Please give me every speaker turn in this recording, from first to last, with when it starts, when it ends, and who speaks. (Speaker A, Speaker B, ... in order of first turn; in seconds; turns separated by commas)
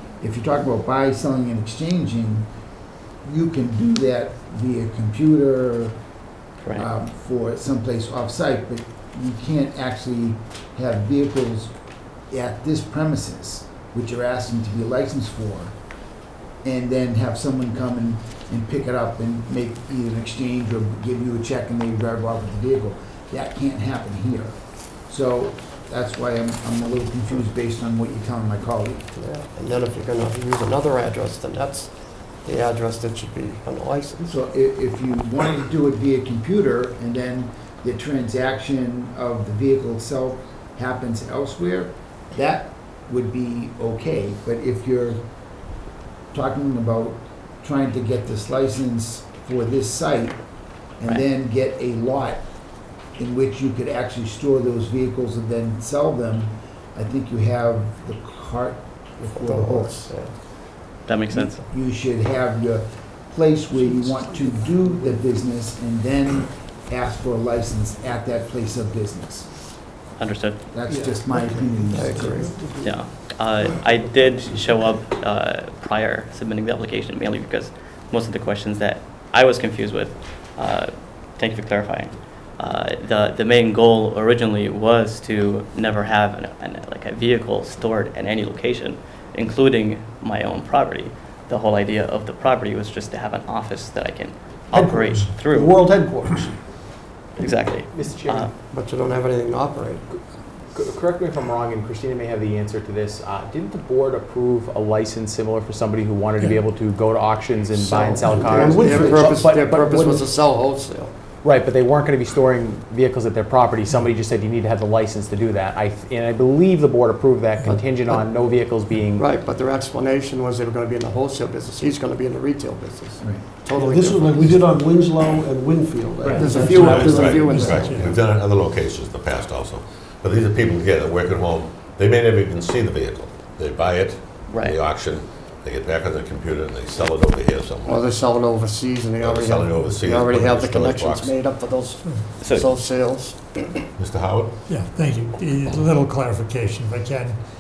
Speaker A: 0.2-2.5, Speaker A: 3.2-6.0, Speaker B: 6.6-6.9, Speaker A: 6.7-11.7, Speaker A: 12.3-15.7, Speaker A: 16.6-24.6, Speaker A: 25.1-29.1, Speaker C: 29.1-31.9, Speaker C: 32.4-34.4, Speaker A: 34.2-45.2, Speaker A: 46.3-50.4, Speaker A: 51.0-52.5, Speaker A: 53.2-60.1, Speaker C: 59.3-60.5, Speaker B: 61.0-61.6, Speaker A: 61.3-69.5, Speaker D: 63.8-65.2, Speaker B: 70.2-70.6, Speaker A: 70.7-72.5, Speaker D: 70.9-73.0, Speaker C: 71.9-72.6, Speaker B: 72.8-95.8, Speaker D: 94.7-96.6, Speaker B: 97.4-98.5, Speaker E: 97.9-98.5, Speaker C: 98.6-100.0, Speaker E: 100.7-109.9, Speaker C: 107.7-111.1, Speaker D: 108.3-110.2, Speaker E: 111.4-119.3, Speaker C: 117.6-118.2, Speaker C: 119.1-124.7, Speaker A: 123.2-123.5, Speaker D: 123.7-128.0, Speaker C: 126.3-128.1, Speaker F: 126.6-127.0, Speaker G: 126.9-138.1, Speaker F: 127.6-128.1, Speaker B: 134.5-134.8, Speaker C: 137.8-143.8, Speaker G: 139.2-141.3, Speaker B: 142.4-142.7, Speaker G: 144.0-144.5, Speaker F: 144.7-147.4